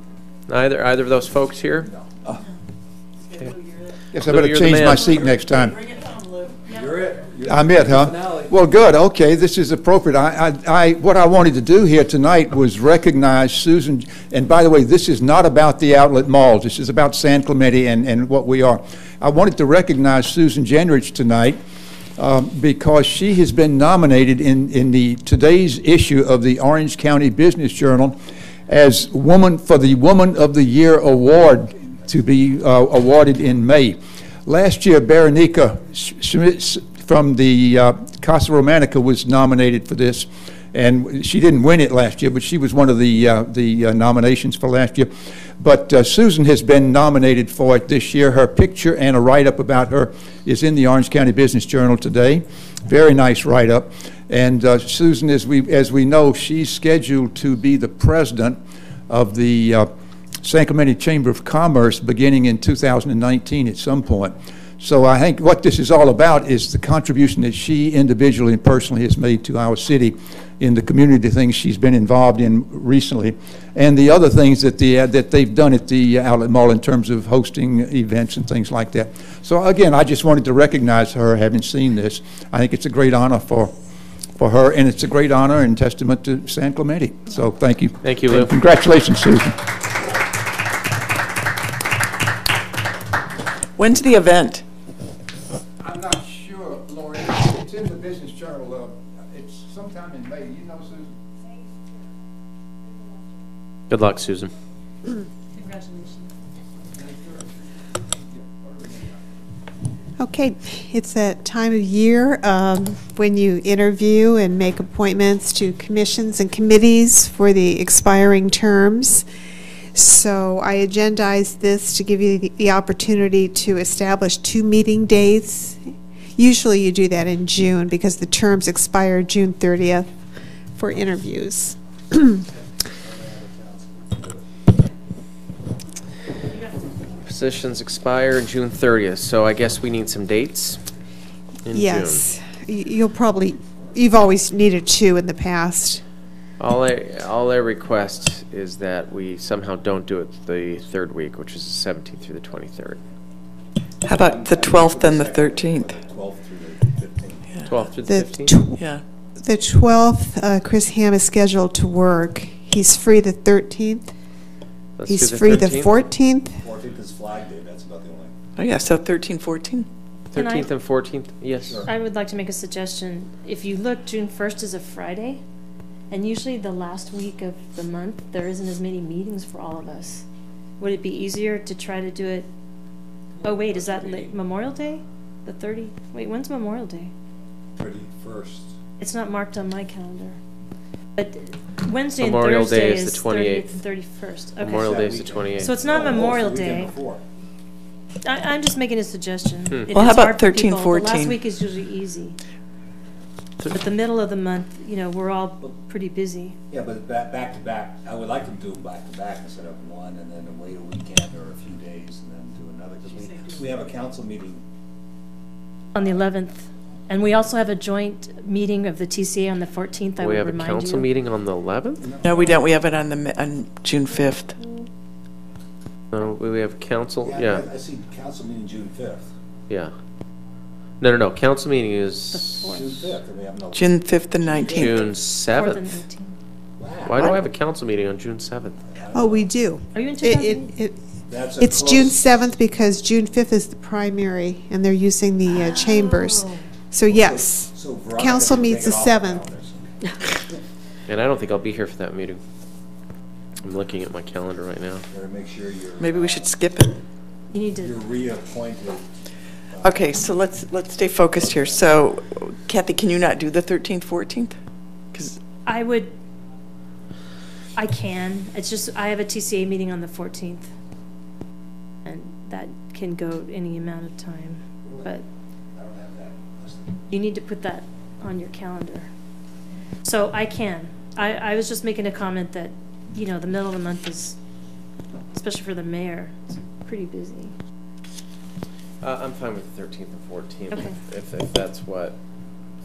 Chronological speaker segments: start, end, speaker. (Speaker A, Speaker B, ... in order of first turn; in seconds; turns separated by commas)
Speaker A: 0.5-1.9, Speaker B: 1.9-2.2, Speaker C: 4.1-5.8, Speaker A: 4.3-5.2, Speaker B: 6.7-8.5, Speaker C: 7.4-21.6, Speaker C: 22.2-28.1, Speaker C: 28.7-58.6, Speaker C: 59.1-59.9, Speaker C: 60.4-83.7, Speaker C: 84.4-89.6, Speaker A: 88.0-88.5, Speaker D: 93.8-94.6, Speaker C: 95.8-101.1, Speaker A: 103.9-104.5, Speaker E: 105.6-106.2, Speaker C: 107.0-107.5, Speaker C: 108.3-109.2, Speaker F: 110.2-119.2, Speaker F: 119.9-125.8, Speaker F: 126.3-130.1, Speaker F: 130.7-132.4, Speaker B: 133.0-134.4, Speaker A: 137.2-140.8, Speaker A: 141.6-142.2, Speaker F: 141.7-146.0, Speaker A: 146.6-153.0, Speaker D: 154.0-155.9, Speaker B: 154.0-157.6, Speaker A: 157.6-158.6, Speaker F: 158.0-158.8, Speaker D: 158.8-159.0, Speaker F: 159.4-164.1, Speaker A: 165.0-166.0, Speaker F: 165.1-166.6, Speaker B: 166.6-168.3, Speaker D: 168.6-169.9, Speaker A: 170.3-171.8, Speaker E: 170.3-170.7, Speaker B: 171.6-171.9, Speaker E: 171.8-175.4, Speaker E: 176.1-180.2, Speaker E: 180.8-182.5, Speaker E: 183.4-187.1, Speaker B: 187.8-188.7, Speaker E: 189.0-190.4, Speaker E: 191.2-196.9, Speaker A: 192.2-193.8, Speaker A: 194.6-195.9, Speaker B: 194.7-197.2, Speaker E: 198.2-202.4, Speaker D: 199.9-201.3, Speaker E: 203.7-206.6, Speaker B: 206.7-214.6, Speaker E: 215.9-221.1, Speaker A: 220.2-222.1, Speaker B: 222.0-222.6, Speaker D: 222.2-224.6, Speaker A: 226.1-227.7, Speaker B: 227.2-229.3, Speaker A: 231.0-232.6, Speaker E: 232.3-233.2, Speaker B: 232.6-235.1, Speaker D: 233.7-234.9, Speaker A: 234.7-235.9, Speaker E: 235.5-236.3, Speaker B: 236.8-237.4, Speaker A: 237.1-238.8, Speaker B: 238.8-239.5, Speaker F: 239.1-241.0, Speaker E: 239.9-240.7, Speaker B: 241.3-242.4, Speaker F: 241.6-249.5, Speaker B: 247.1-249.9, Speaker A: 251.1-252.4, Speaker A: 253.6-255.0, Speaker B: 255.1-256.6, Speaker D: 256.0-256.9, Speaker E: 257.5-258.0, Speaker B: 257.8-259.0, Speaker B: 259.7-260.1, Speaker D: 259.8-264.6, Speaker B: 261.3-262.0, Speaker E: 265.6-266.1, Speaker E: 267.8-270.7, Speaker E: 272.0-275.2, Speaker B: 274.8-275.1, Speaker B: 275.8-277.0, Speaker E: 277.1-279.1, Speaker E: 280.0-284.4, Speaker E: 285.3-287.5, Speaker A: 289.0-292.2